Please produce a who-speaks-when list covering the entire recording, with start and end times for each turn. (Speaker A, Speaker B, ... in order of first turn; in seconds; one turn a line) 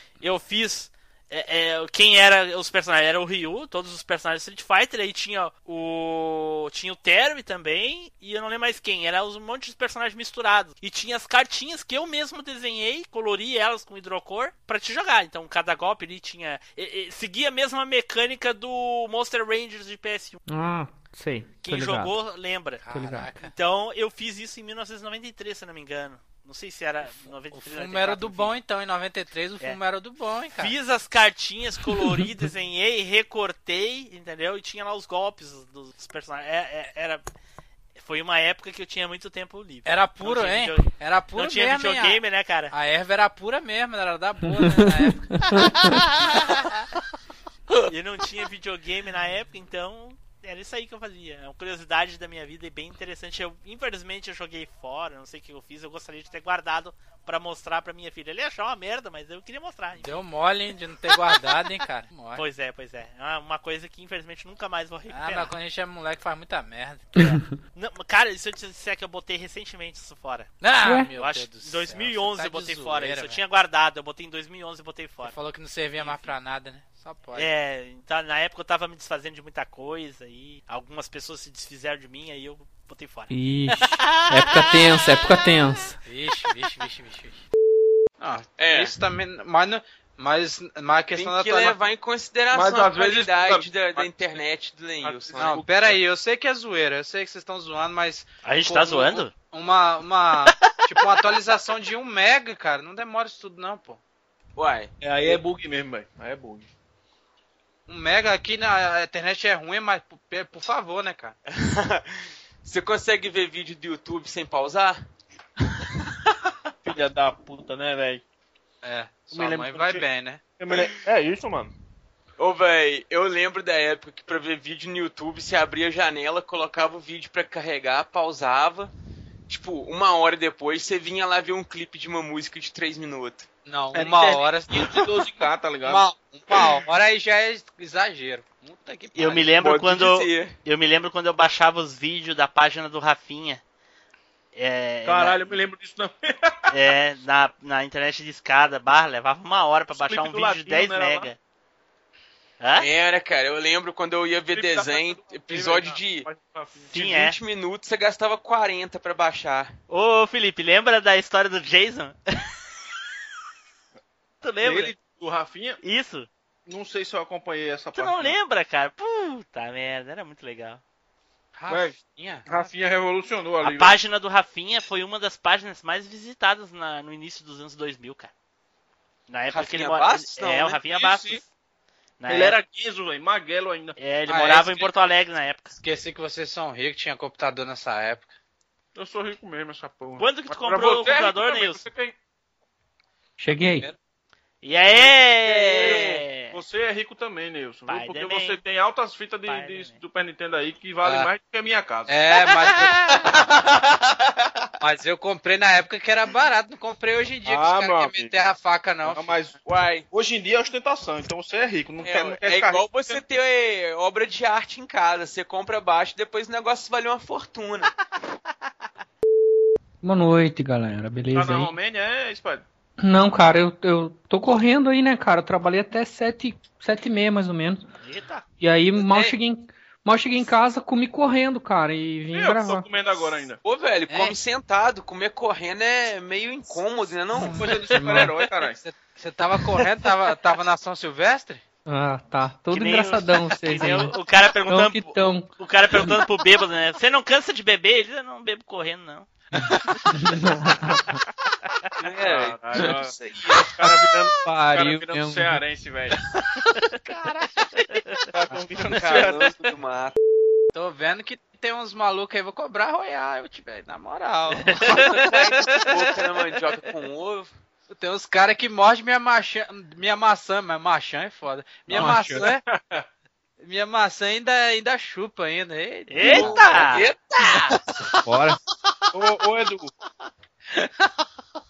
Speaker A: 0.2-20.4
Speaker B: 20.5-22.1
Speaker A: 21.6-22.9
Speaker C: 22.8-23.5
Speaker B: 22.9-23.4
Speaker A: 23.4-28.5
Speaker C: 27.5-30.7
Speaker A: 30.6-37.2
Speaker A: 38.0-42.7
Speaker C: 39.9-45.9
Speaker B: 44.6-45.9
Speaker A: 47.9-60.2
Speaker C: 60.0-62.4
Speaker A: 62.4-65.5
Speaker C: 65.1-67.4
Speaker B: 67.2-67.5
Speaker A: 67.8-70.5
Speaker C: 70.6-73.4
Speaker B: 70.8-71.1
Speaker A: 71.2-75.4
Speaker C: 75.2-77.5
Speaker A: 76.0-76.3
Speaker A: 77.3-84.7
Speaker B: 83.3-86.0
Speaker C: 86.0-87.4
Speaker C: 88.2-91.8
Speaker D: 88.6-89.0
Speaker D: 91.1-96.0
Speaker E: 92.5-94.4
Speaker E: 95.0-95.9
Speaker C: 95.4-104.0
Speaker A: 98.4-99.3
Speaker D: 104.6-105.4
Speaker E: 105.0-106.7
Speaker C: 107.9-111.4
Speaker D: 111.5-112.0
Speaker D: 112.6-115.0
Speaker E: 116.8-118.2
Speaker C: 118.8-120.4
Speaker E: 119.3-120.0
Speaker E: 120.6-121.7
Speaker D: 122.4-128.9
Speaker D: 129.5-133.5
Speaker C: 133.7-134.9
Speaker E: 133.9-136.8
Speaker C: 135.8-139.5
Speaker A: 139.2-143.6
Speaker D: 139.6-140.6
Speaker A: 144.6-145.5
Speaker E: 145.1-146.7
Speaker A: 146.7-151.4
Speaker E: 149.9-151.3
Speaker A: 152.6-152.9
Speaker D: 152.8-156.3
Speaker E: 154.5-157.1
Speaker A: 156.9-157.4
Speaker D: 157.0-159.7
Speaker A: 159.9-162.2
Speaker A: 164.4-164.9
Speaker E: 164.6-165.8
Speaker A: 165.8-166.3
Speaker E: 166.7-168.4
Speaker A: 167.9-170.8
Speaker C: 171.6-172.7
Speaker E: 171.7-174.0
Speaker A: 173.6-178.3
Speaker A: 179.3-181.5
Speaker D: 179.5-180.8
Speaker E: 180.9-181.3
Speaker A: 182.2-182.6
Speaker E: 182.3-184.0
Speaker A: 184.0-185.8
Speaker C: 184.3-184.9
Speaker C: 185.7-188.3
Speaker E: 189.0-192.2
Speaker A: 190.2-191.9
Speaker B: 193.4-193.9
Speaker A: 194.6-196.6
Speaker E: 194.9-202.2
Speaker D: 195.4-196.2
Speaker A: 197.9-198.6
Speaker A: 199.5-200.0
Speaker C: 201.0-201.3
Speaker C: 202.1-203.4
Speaker C: 204.8-209.3
Speaker E: 207.4-208.4
Speaker E: 209.0-209.6
Speaker D: 209.7-210.1
Speaker E: 210.1-213.2
Speaker D: 212.0-217.9
Speaker B: 220.0-221.7
Speaker E: 221.3-222.6
Speaker B: 223.0-227.8
Speaker A: 228.0-228.5
Speaker B: 228.6-232.9
Speaker D: 229.0-229.3
Speaker E: 232.3-233.6
Speaker D: 233.6-237.7
Speaker C: 234.1-234.3
Speaker E: 237.4-238.8
Speaker B: 237.9-238.3
Speaker C: 238.1-241.6
Speaker B: 241.9-244.2
Speaker A: 242.7-249.3
Speaker B: 244.7-246.1
Speaker B: 250.2-250.5
Speaker D: 252.0-253.7
Speaker E: 252.0-256.2
Speaker B: 253.8-255.6
Speaker C: 257.1-257.7
Speaker E: 258.3-259.6
Speaker D: 258.4-260.1
Speaker C: 260.7-264.8
Speaker A: 264.6-265.5
Speaker D: 264.8-267.5
Speaker C: 267.9-272.6
Speaker B: 271.9-272.4
Speaker E: 272.0-273.0
Speaker C: 273.6-276.6
Speaker A: 276.1-277.1
Speaker D: 276.2-277.8
Speaker B: 278.3-278.6
Speaker E: 279.1-279.9